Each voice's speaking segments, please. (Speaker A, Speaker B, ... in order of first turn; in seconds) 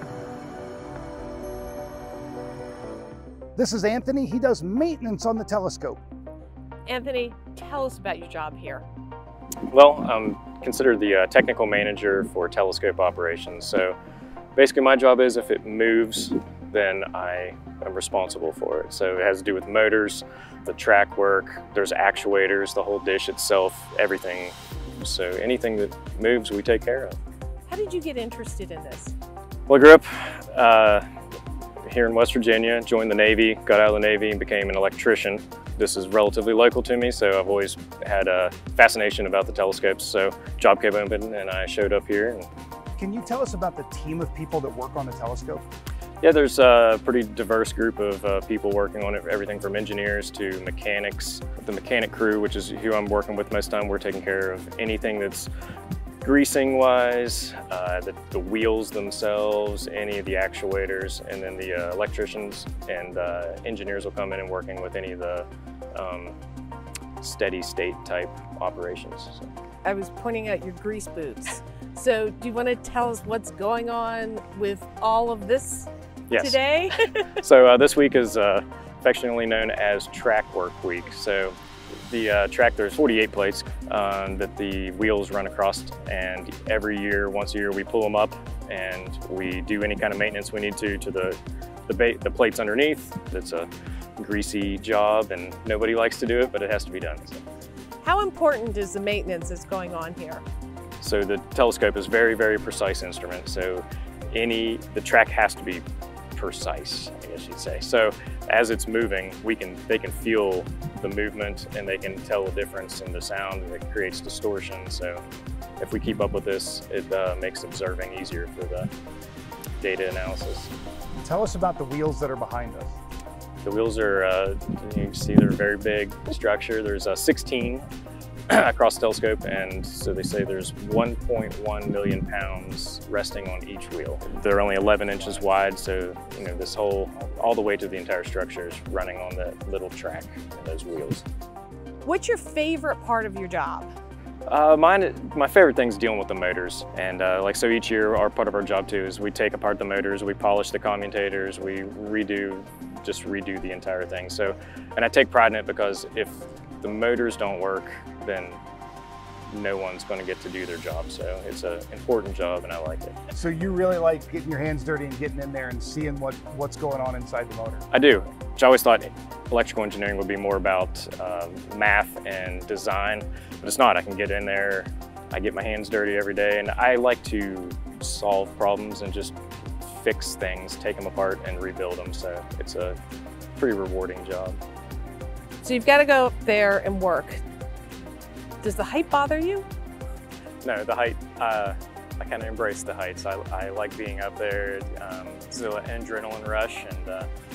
Speaker A: 3.6-6.0, 43.0-45.6, 121.2-123.0, 163.3-167.8
Speaker B: 6.9-8.8, 27.7-29.1, 69.8-77.2, 98.0-100.4, 142.0-143.9, 185.6-187.4, 188.6-189.7
Speaker C: 9.7-13.9, 14.6-27.2, 29.7-31.1, 31.8-42.5, 46.2-55.5, 56.2-66.4, 67.2-69.5, 76.3-76.6, 77.2-81.6, 82.1-97.4, 101.0-115.2, 115.8-118.9, 119.8-120.7, 123.6-127.9, 128.5-141.2, 144.5-158.6, 159.5-163.2, 167.9-183.0, 183.6-184.6, 190.6-197.3